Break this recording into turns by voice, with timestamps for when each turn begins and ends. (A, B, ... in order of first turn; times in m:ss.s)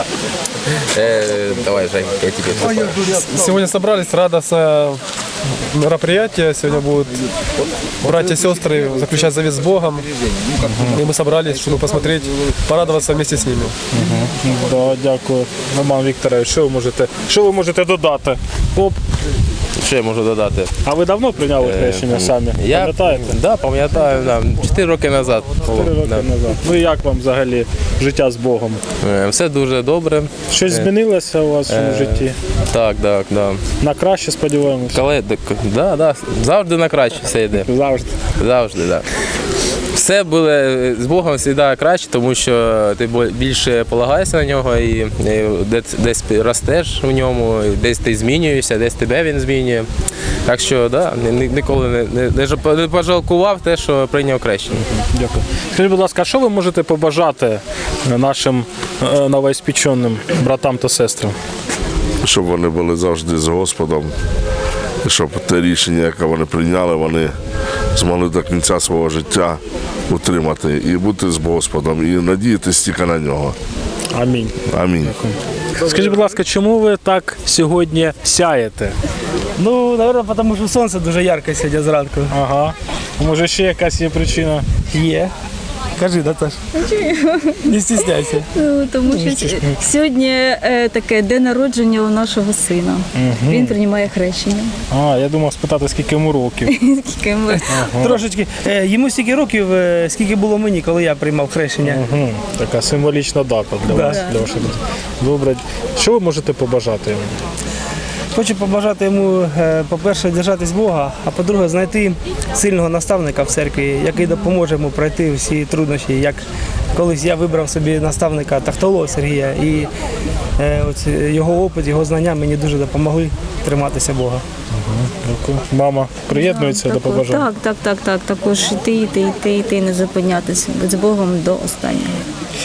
0:00.9-0:03.0 A
0:03.2-0:05.0 B
0:05.7-0:07.2 B
0:08.0-0:10.0 B
0:10.6-0:10.9 C
0:10.7-0:13.7 B
0:13.9-0:19.0 C
0:19.8-0:20.7 A
0:20.8-0:23.4 C
0:21.6-0:26.3 A
0:25.6-0:28.8 C
0:29.0-0:30.9 A
0:30.5-0:32.4 C
0:31.7-0:33.6 A
0:33.8-0:35.0 C
0:34.9-0:37.7 A
0:37.5-0:38.2 C
0:38.4-0:39.0 A
0:39.9-0:49.9 A
0:50.5-0:54.8 A
0:54.9-1:01.4 C
1:02.2-1:04.1 D
1:05.0-1:07.3 D
1:07.9-1:13.6 D
1:14.1-1:19.0 C
1:14.7-1:15.1 D
1:19.6-1:22.3 E
1:22.3-1:24.7 C
1:24.9-1:25.3 E
1:25.9-1:26.6 E
1:26.8-1:27.6 F
1:27.6-1:28.5 E
1:28.5-1:34.7 F
1:29.1-1:29.6 E
1:33.1-1:33.8 C
1:34.9-1:36.8 C
1:36.7-1:37.7 F
1:37.5-1:42.0 E
1:37.7-1:38.2 C
1:41.8-1:47.4 C
1:43.8-1:44.2 E
1:44.0-1:44.3 F
1:48.3-1:59.9 E
2:00.6-2:04.4 E
2:04.7-2:07.5 C
2:06.3-2:12.2 F